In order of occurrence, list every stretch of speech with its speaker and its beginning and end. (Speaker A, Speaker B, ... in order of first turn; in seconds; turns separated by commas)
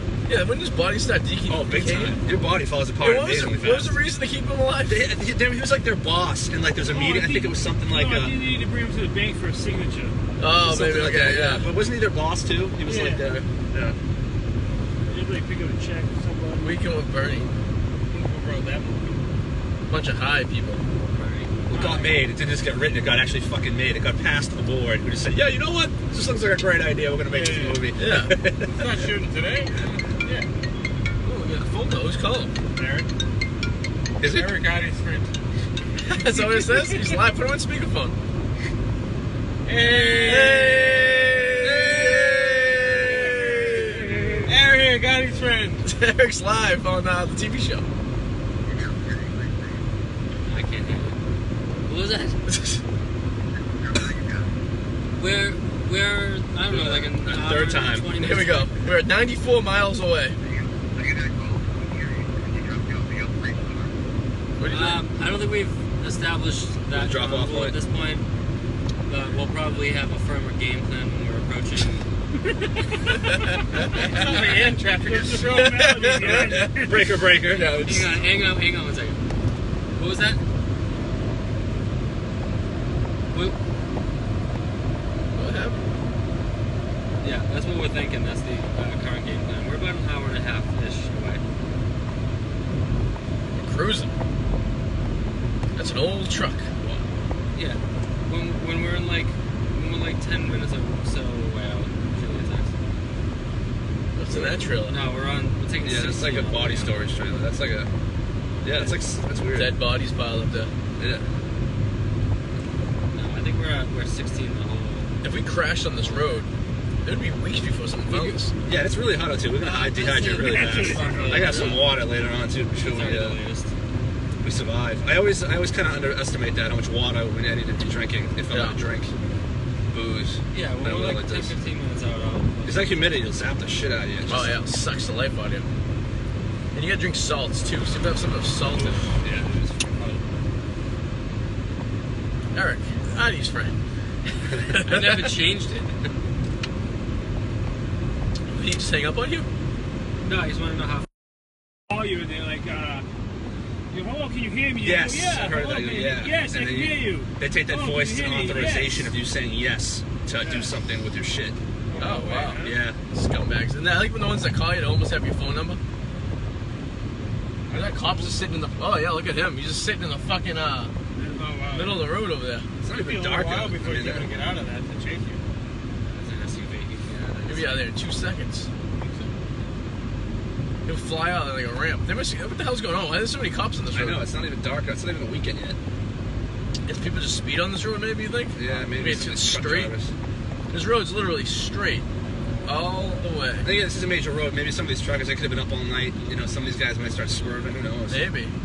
Speaker A: 0.3-2.2, Speaker B: 1.5-4.0, Speaker A: 3.0-5.1, Speaker B: 4.9-8.4, Speaker C: 6.8-10.2, Speaker A: 10.4-11.7, Speaker B: 10.6-14.0, Speaker C: 12.8-13.3, Speaker C: 15.1-16.8, Speaker A: 16.6-17.5, Speaker D: 18.1-19.2, Speaker A: 19.9-20.8, Speaker E: 21.1-21.5, Speaker B: 21.7-29.0, Speaker D: 21.7-22.2, Speaker D: 27.3-27.8, Speaker A: 28.0-28.3, Speaker D: 28.7-30.5, Speaker A: 31.2-32.5, Speaker D: 32.8-33.1, Speaker B: 34.2-34.5, Speaker D: 34.2-35.3, Speaker A: 36.0-38.2, Speaker D: 36.1-37.1, Speaker D: 39.6-45.9, Speaker A: 40.2-44.1, Speaker E: 40.3-40.5, Speaker B: 41.6-43.3, Speaker A: 45.9-47.9, Speaker E: 50.5-51.2, Speaker E: 51.9-52.4, Speaker A: 52.5-52.8, Speaker E: 55.2-58.7, Speaker B: 56.7-58.2, Speaker A: 58.2-60.4, Speaker A: 64.6-65.0, Speaker E: 64.7-68.2, Speaker B: 66.9-67.8, Speaker E: 69.1-72.1, Speaker C: 72.5-77.1, Speaker D: 73.9-76.5, Speaker A: 75.6-76.6, Speaker B: 76.2-78.1, Speaker A: 77.6-78.0, Speaker E: 77.7-79.2, Speaker E: 80.0-80.4, Speaker A: 85.3-85.8, Speaker E: 87.2-91.4, Speaker A: 93.5-94.1, Speaker A: 95.8-96.7, Speaker E: 97.5-102.8, Speaker A: 104.2-105.0, Speaker B: 104.3-104.6, Speaker E: 104.9-107.0, Speaker B: 105.8-107.9, Speaker B: 108.6-109.8, Speaker A: 109.5-110.7, Speaker B: 111.0-111.2, Speaker E: 113.1-115.1, Speaker A: 115.2-116.5, Speaker E: 115.9-116.5, Speaker A: 117.0-118.5, Speaker B: 118.7-123.4, Speaker E: 119.7-122.0, Speaker C: 120.3-121.7, Speaker A: 121.4-121.7, Speaker E: 122.8-123.7, Speaker B: 124.4-129.1, Speaker A: 128.5-128.8, Speaker B: 129.9-131.6, Speaker E: 130.5-133.4, Speaker B: 132.7-134.6, Speaker A: 134.3-135.7, Speaker A: 136.7-139.1, Speaker B: 138.7-140.2, Speaker A: 142.5-143.8, Speaker A: 144.5-145.3, Speaker E: 144.8-146.1, Speaker A: 148.5-149.5, Speaker E: 150.2-151.1, Speaker C: 151.9-153.1, Speaker C: 153.9-159.1, Speaker B: 154.8-161.6, Speaker C: 160.4-160.7, Speaker D: 161.9-162.8, Speaker A: 162.0-165.8, Speaker B: 162.6-163.0, Speaker A: 167.7-170.9, Speaker C: 171.2-171.6, Speaker D: 171.3-172.1, Speaker A: 171.7-172.7, Speaker B: 172.8-174.3, Speaker D: 172.9-175.4, Speaker E: 176.1-177.8, Speaker A: 177.5-178.7, Speaker D: 179.0-179.3, Speaker A: 180.9-184.3, Speaker B: 183.9-185.8, Speaker A: 186.9-189.9, Speaker B: 188.6-190.1, Speaker A: 190.7-192.1, Speaker A: 192.7-193.7, Speaker B: 193.6-198.2, Speaker A: 198.1-198.5